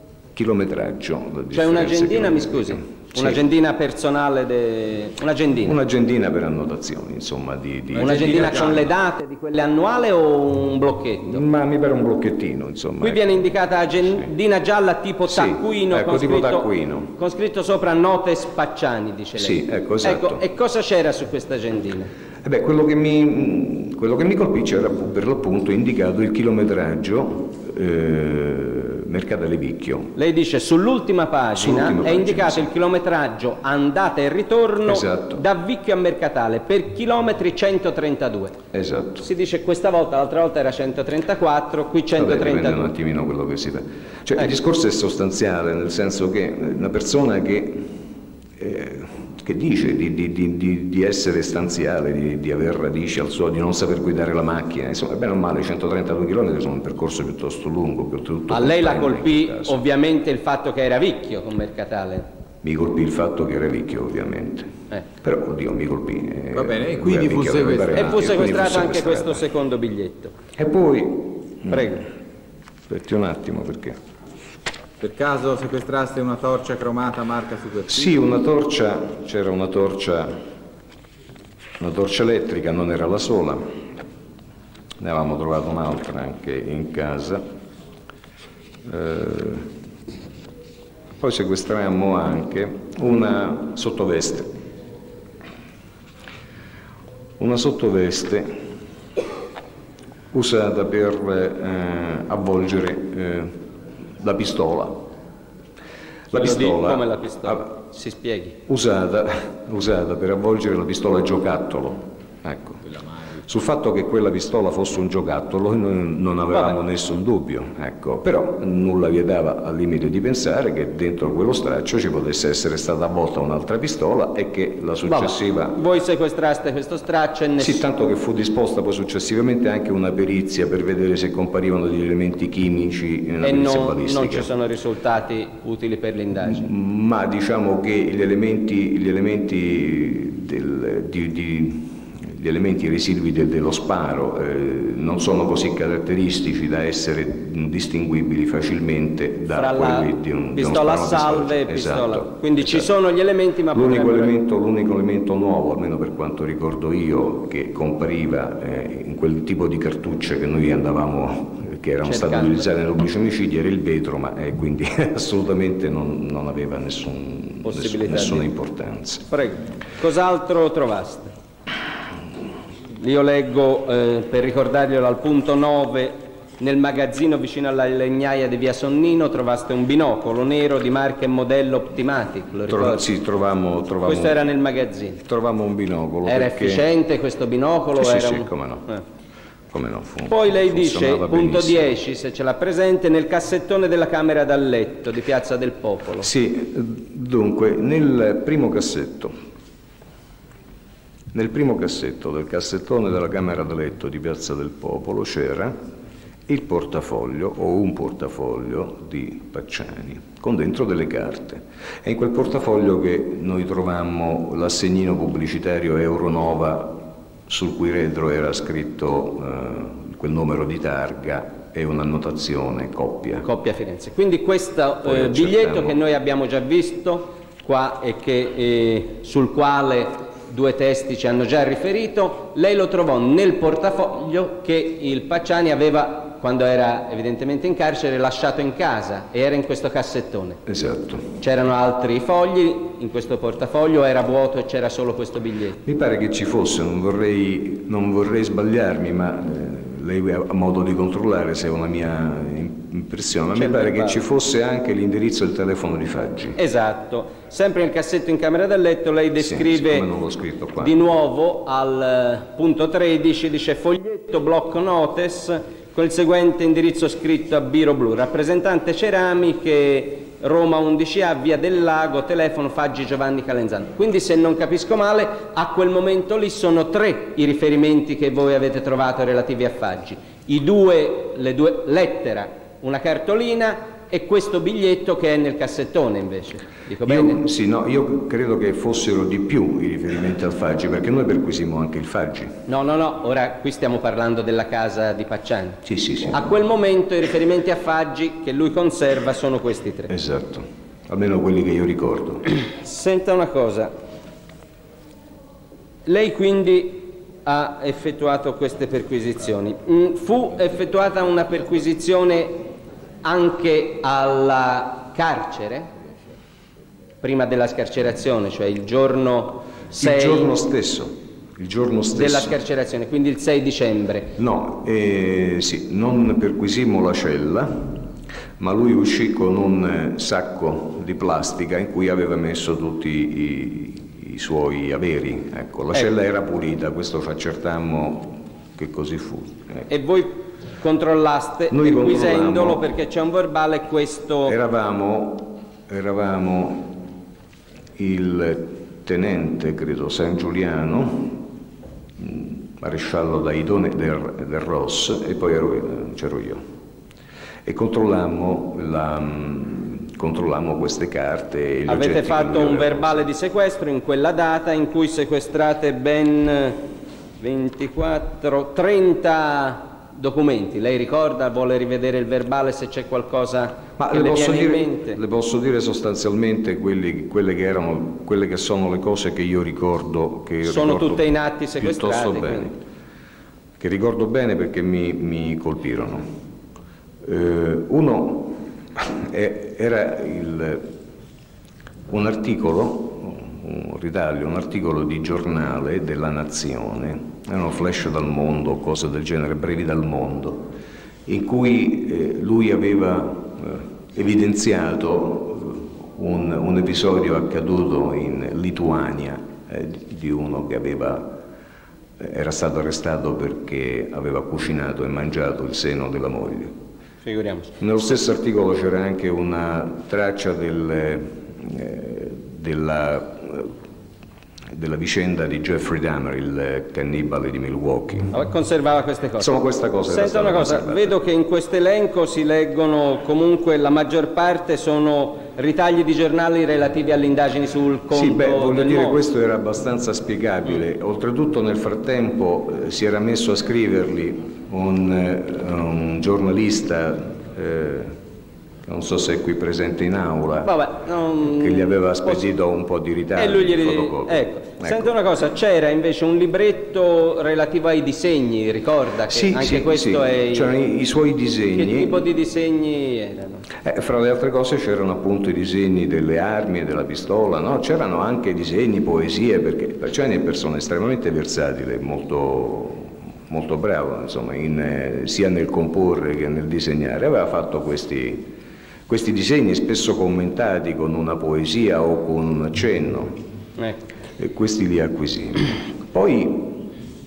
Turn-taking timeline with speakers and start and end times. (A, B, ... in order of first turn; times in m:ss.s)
0:00.4-0:03.4 A
0:01.5-0:05.8 B
0:05.6-0:08.9 A
0:07.9-0:11.4 B
0:11.2-0:14.3 A
0:13.0-0:22.1 B
0:15.3-0:17.1 A
0:19.4-0:20.4 A
0:22.4-0:30.2 A
0:30.2-0:38.6 B
0:31.5-0:32.7 A
0:34.8-0:35.4 A
0:38.7-0:39.3 A
0:39.2-0:42.9 B
0:42.1-0:48.0 A
0:48.6-0:59.8 A
0:58.5-1:02.3 B
1:02.6-1:09.5 A
1:06.6-1:08.1 C
1:07.9-1:10.4 B
1:10.6-1:12.1 A
1:11.7-1:12.0 B
1:12.9-1:14.0 A
1:15.0-1:18.2 C
1:17.9-1:20.4 A
1:21.8-1:23.8 A
1:25.0-1:27.4 A
1:28.8-1:29.7 A
1:31.2-1:34.5 A
1:37.4-1:38.6 A
1:40.3-1:45.1 A
1:46.3-1:47.7 A
1:46.3-1:48.6 B
1:48.6-1:52.9 A
1:52.8-1:53.5 C
1:53.4-2:05.8 A
1:56.5-1:56.8 B
2:05.1-2:07.8 B
2:07.6-2:14.5 A
2:13.4-2:16.7 B
2:16.4-2:32.9 A
2:29.5-2:34.4 B
2:33.7-2:49.3 A
2:42.0-2:42.7 B
2:47.6-2:48.5 B
2:49.3-2:51.3 B
2:53.0-3:03.1 B
3:02.7-3:04.4 A
3:04.0-3:05.2 B
3:05.2-3:06.9 A
3:06.2-3:09.0 B
3:07.9-3:08.9 A
3:09.7-3:12.0 A
3:10.3-3:16.3 B
3:16.2-3:19.4 A
3:21.3-3:25.8 A
3:26.5-3:43.5 A
3:43.4-4:00.6 B
3:45.0-3:46.0 A
4:00.7-4:01.3 A
4:01.4-4:05.8 B
4:05.8-4:16.6 A
4:13.5-4:14.2 B
4:16.6-4:20.1 B
4:19.4-4:21.1 A
4:20.8-4:47.4 B
4:47.0-4:52.7 A
4:52.7-5:00.1 B
4:55.8-4:56.4 A
5:00.1-5:02.4 A
5:02.6-5:04.0 B
5:06.1-5:12.7 B
5:13.2-5:15.9 B
5:17.2-5:20.6 B
5:20.0-5:22.6 A
5:22.2-5:24.3 B
5:24.4-5:39.9 A
5:39.9-5:44.6 B
5:41.7-5:42.8 A
5:44.4-5:47.1 A
5:48.0-5:51.5 A
5:52.2-5:56.6 A
5:57.6-6:03.2 A
6:01.9-6:06.8 B
6:07.4-6:15.2 B
6:14.0-6:22.8 A
6:20.6-6:22.7 B
6:23.8-6:26.4 A
6:27.2-6:31.0 A
6:32.1-6:40.7 A
6:41.3-6:51.4 A
6:52.2-6:56.8 A
6:57.2-6:57.7 B
6:57.8-7:03.8 A
7:04.7-7:08.3 A
7:08.3-7:09.5 B
7:09.4-7:11.2 A
7:10.1-7:19.2 B
7:18.1-7:28.2 A
7:28.8-7:30.8 A
7:30.6-7:32.5 B
7:31.4-7:35.2 A
7:33.4-7:40.7 B
7:39.3-7:42.3 A
7:41.7-7:43.7 B
7:43.7-7:58.6 A
7:59.1-8:03.4 A
8:03.8-8:04.0 B
8:04.4-8:07.0 A